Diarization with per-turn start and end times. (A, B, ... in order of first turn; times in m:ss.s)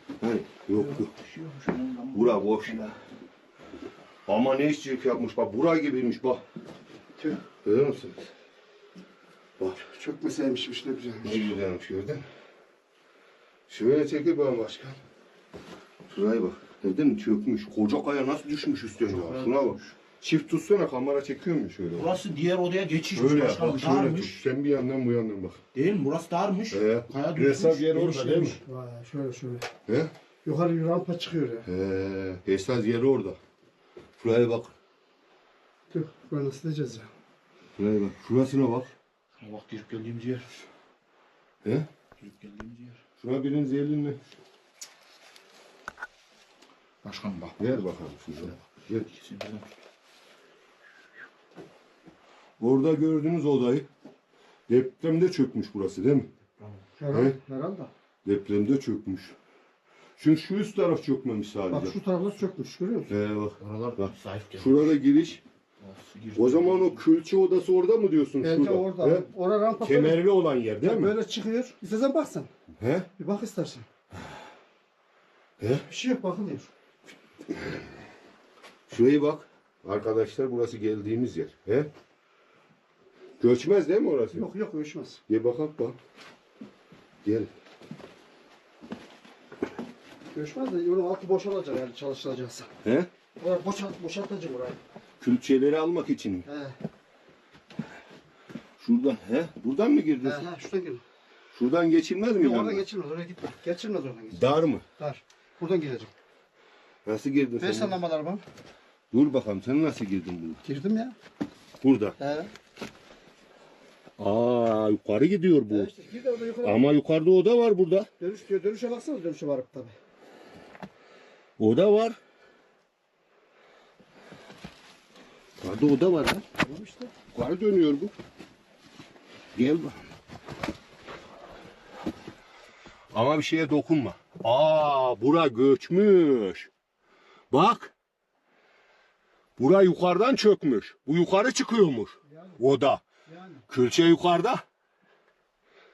0:00.2-0:01.1 A
0:00.7-0:03.0 B
0:02.1-0:03.0 A
0:04.3-0:06.4 A
0:07.6-0:08.3 A
0:09.8-0:11.5 C
0:11.2-0:12.2 A
0:13.7-0:15.0 A
0:16.1-0:22.2 A
0:19.1-0:19.9 B
0:21.9-0:24.4 B
0:23.1-0:25.6 A
0:25.7-0:28.6 B
0:26.7-0:28.6 A
0:28.6-0:29.7 C
0:29.9-0:30.1 A
0:30.4-0:31.7 C
0:31.7-0:33.4 A
0:34.2-0:34.8 A
0:35.9-0:37.1 C
0:37.8-0:38.9 A
0:39.4-0:40.5 B
0:42.2-0:43.0 B
0:43.2-0:44.2 A
0:47.0-0:47.8 B
0:47.6-0:49.1 A
0:48.4-0:49.7 B
0:52.6-0:53.9 A
0:54.7-0:56.3 A
0:56.6-0:56.8 B
0:57.0-0:57.9 C
0:57.1-0:57.4 A
0:58.2-0:59.4 A
1:00.2-1:02.0 A
1:01.7-1:03.1 C
1:03.1-1:05.4 A
1:03.6-1:05.0 B
1:05.8-1:07.0 B
1:06.4-1:09.3 A
1:08.4-1:10.2 C
1:09.8-1:11.1 A
1:10.8-1:12.5 C
1:12.8-1:13.1 A
1:13.2-1:13.9 C
1:15.6-1:15.9 A
1:15.9-1:16.7 C
1:18.9-1:21.9 A
1:23.4-1:24.5 A
1:24.3-1:25.2 C
1:25.3-1:26.0 A
1:27.2-1:27.5 A
1:30.3-1:32.7 C
1:32.8-1:33.1 A
1:33.4-1:34.8 C
1:35.2-1:36.5 A
1:36.5-1:36.8 C
1:38.8-1:40.5 A
1:40.2-1:41.0 C
1:41.6-1:42.9 A
1:42.4-1:46.1 C
1:44.3-1:44.8 A
1:47.0-1:48.0 A
1:47.6-1:48.4 C
1:49.1-1:50.6 A
1:50.6-1:51.2 C
1:51.8-1:52.2 A
1:52.2-1:52.5 C
1:54.2-1:55.9 A
1:55.7-1:56.8 C
1:56.6-1:58.1 A
1:58.2-2:00.0 C
2:01.6-2:02.2 A
2:05.6-2:06.4 A
2:06.6-2:07.1 C
2:07.3-2:08.1 A
2:09.6-2:10.0 A
2:13.1-2:16.7 A
2:17.5-2:17.9 A
2:19.6-2:23.0 A
2:22.3-2:22.6 C
2:23.3-2:23.6 C
2:23.7-2:24.6 A